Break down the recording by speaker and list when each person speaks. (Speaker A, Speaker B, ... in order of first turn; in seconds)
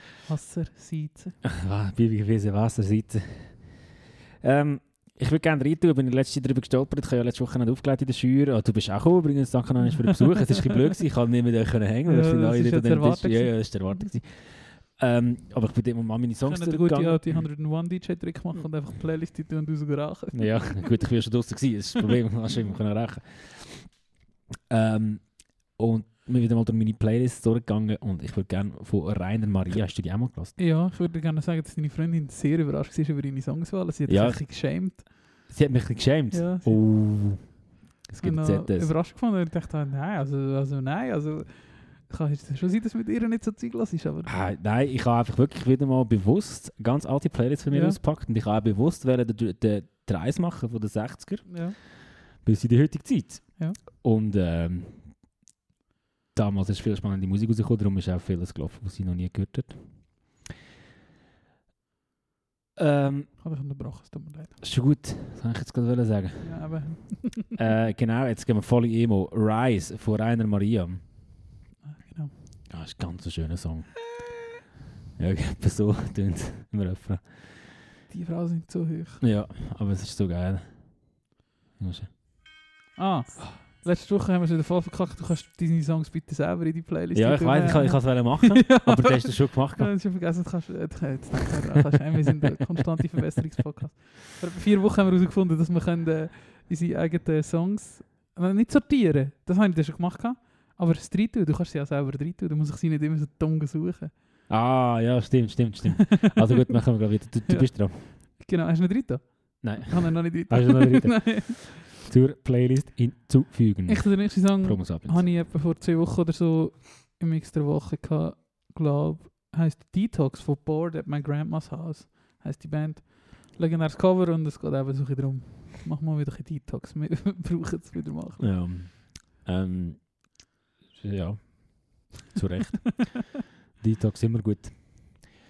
Speaker A: 0.2-1.4, 9.9-10.1, 12.1-14.0, 16.4-21.0, 30.6-35.5, 36.3-37.5, 38.2-44.4, 47.7-48.0, 51.5-51.8, 63.4-64.6, 66.4-67.5, 71.8-72.3, 78.1-79.2, 83.0-104.1, 107.5-111.5, 113.9-128.6
Speaker B: 1.4-17.4, 20.3-24.0, 24.7-30.6, 34.1-34.5, 35.5-38.9, 44.2-55.1, 56.3-59.8, 62.8-63.4, 64.6-66.9, 67.5-71.0, 72.7-74.0, 75.2-77.8, 79.2-81.2, 81.8-82.1, 87.1-90.0, 104.5-108.0, 109.6-115.2, 128.4-130.4, 130.9-135.3